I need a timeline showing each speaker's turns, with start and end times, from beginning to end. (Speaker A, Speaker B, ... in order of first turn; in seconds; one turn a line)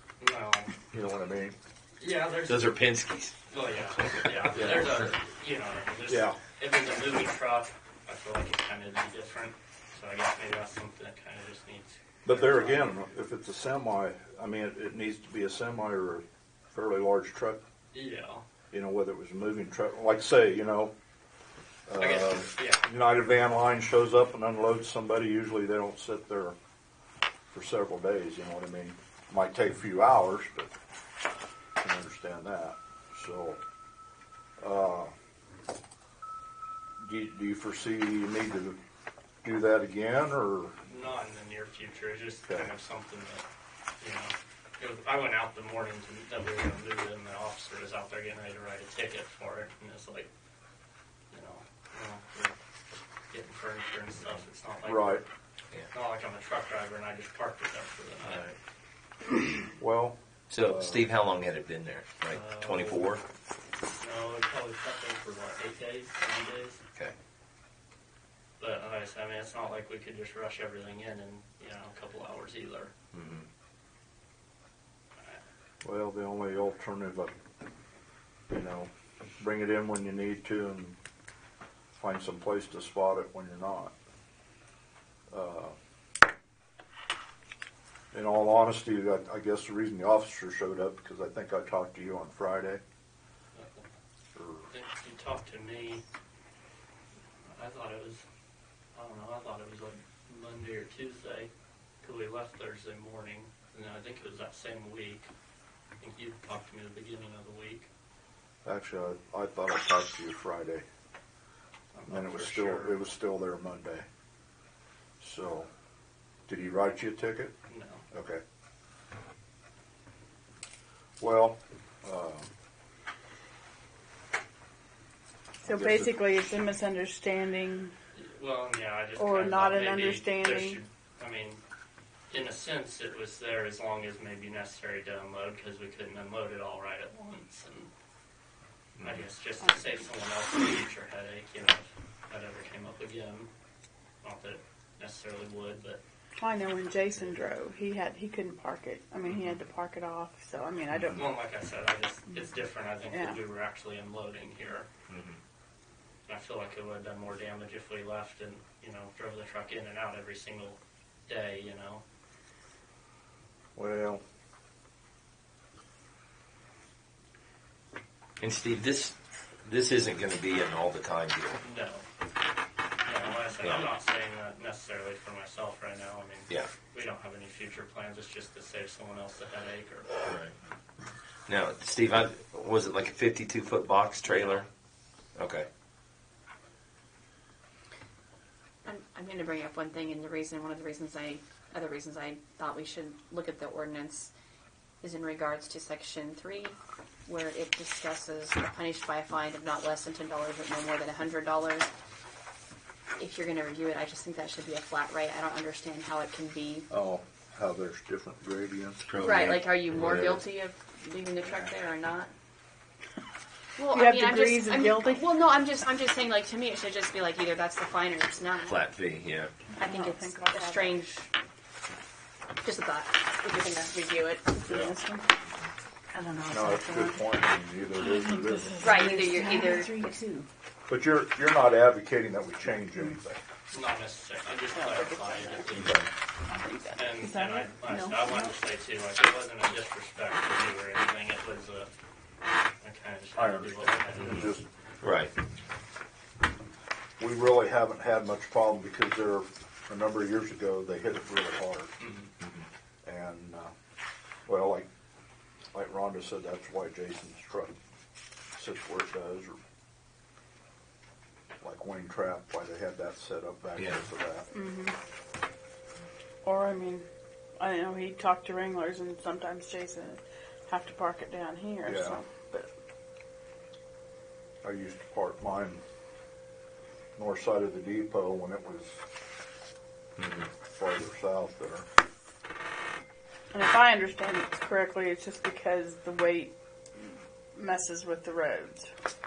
Speaker A: 0.2-0.7
Speaker B: 0.9-1.5
Speaker A: 2.0-2.7
Speaker C: 2.4-5.1
Speaker A: 3.5-12.9
Speaker B: 6.1-6.4
Speaker B: 12.2-17.6
Speaker A: 17.9-18.4
Speaker B: 18.7-20.9
Speaker B: 21.9-26.5
Speaker A: 21.9-22.8
Speaker B: 27.5-30.7
Speaker B: 31.8-33.6
Speaker B: 34.6-35.1
Speaker B: 37.0-38.8
Speaker B: 39.4-40.8
Speaker A: 40.8-43.4
Speaker B: 42.5-42.7
Speaker A: 44.0-50.3
Speaker A: 51.3-52.6
Speaker A: 53.3-55.2
Speaker B: 54.8-55.2
Speaker A: 55.9-58.4
Speaker C: 58.2-58.5
Speaker B: 59.8-61.1
Speaker C: 60.5-63.2
Speaker A: 62.3-63.1
Speaker A: 63.9-66.8
Speaker A: 68.6-72.9
Speaker C: 73.1-73.5
Speaker B: 75.8-77.3
Speaker B: 78.5-81.0
Speaker B: 82.0-83.9
Speaker B: 85.3-85.8
Speaker B: 88.1-92.8
Speaker A: 93.5-93.8
Speaker B: 94.3-94.7
Speaker A: 94.7-96.0
Speaker A: 97.5-98.2
Speaker A: 98.9-101.5
Speaker A: 102.0-105.3
Speaker A: 106.0-107.9
Speaker B: 108.6-110.8
Speaker A: 111.9-113.0
Speaker B: 112.1-114.0
Speaker B: 115.2-115.7
Speaker B: 116.5-117.5
Speaker A: 117.7-118.0
Speaker B: 118.1-118.4
Speaker B: 121.2-122.5
Speaker D: 125.6-127.9
Speaker B: 125.7-126.2
Speaker A: 128.1-131.6
Speaker D: 129.2-130.8
Speaker A: 132.3-137.9
Speaker C: 139.0-139.2
Speaker A: 139.0-143.5
Speaker A: 144.2-146.0
Speaker D: 146.4-151.3
Speaker A: 149.3-149.6
Speaker C: 150.9-151.2
Speaker A: 151.2-154.9
Speaker D: 153.1-153.4
Speaker C: 155.1-155.4
Speaker A: 156.2-162.0
Speaker B: 163.8-164.2
Speaker C: 168.4-171.6
Speaker A: 171.6-172.1
Speaker A: 173.0-180.1
Speaker C: 173.6-173.9
Speaker C: 180.2-180.5
Speaker C: 181.5-184.7
Speaker C: 185.3-185.7
Speaker E: 188.8-194.3
Speaker E: 195.0-201.9
Speaker E: 203.2-206.9
Speaker B: 206.9-209.1
Speaker C: 209.1-210.4
Speaker E: 209.2-212.3
Speaker E: 213.8-218.8
Speaker D: 213.9-215.2
Speaker C: 218.7-219.5
Speaker D: 219.7-221.0
Speaker E: 219.8-221.3
Speaker E: 222.6-224.6
Speaker D: 224.5-225.2
Speaker D: 226.1-227.2
Speaker B: 226.5-229.1
Speaker D: 227.9-230.5
Speaker E: 228.8-230.0
Speaker B: 230.9-233.4
Speaker A: 233.7-236.1
Speaker D: 234.7-235.7
Speaker B: 235.8-236.0
Speaker D: 236.5-238.5
Speaker A: 236.9-241.9
Speaker A: 242.8-244.5
Speaker B: 243.3-244.6
Speaker C: 245.0-245.3
Speaker B: 247.2-251.9
Speaker A: 252.0-252.3
Speaker C: 252.4-252.7
Speaker B: 253.0-253.7
Speaker B: 254.4-254.9
Speaker B: 255.7-257.8
Speaker B: 258.5-259.6
Speaker B: 261.6-264.5
Speaker C: 263.8-264.0
Speaker D: 264.5-264.9
Speaker D: 266.4-267.1
Speaker D: 267.6-272.7
Speaker B: 271.8-272.2
Speaker B: 274.6-275.8
Speaker B: 277.2-279.0
Speaker C: 280.2-280.5
Speaker B: 280.7-281.9
Speaker D: 283.5-288.9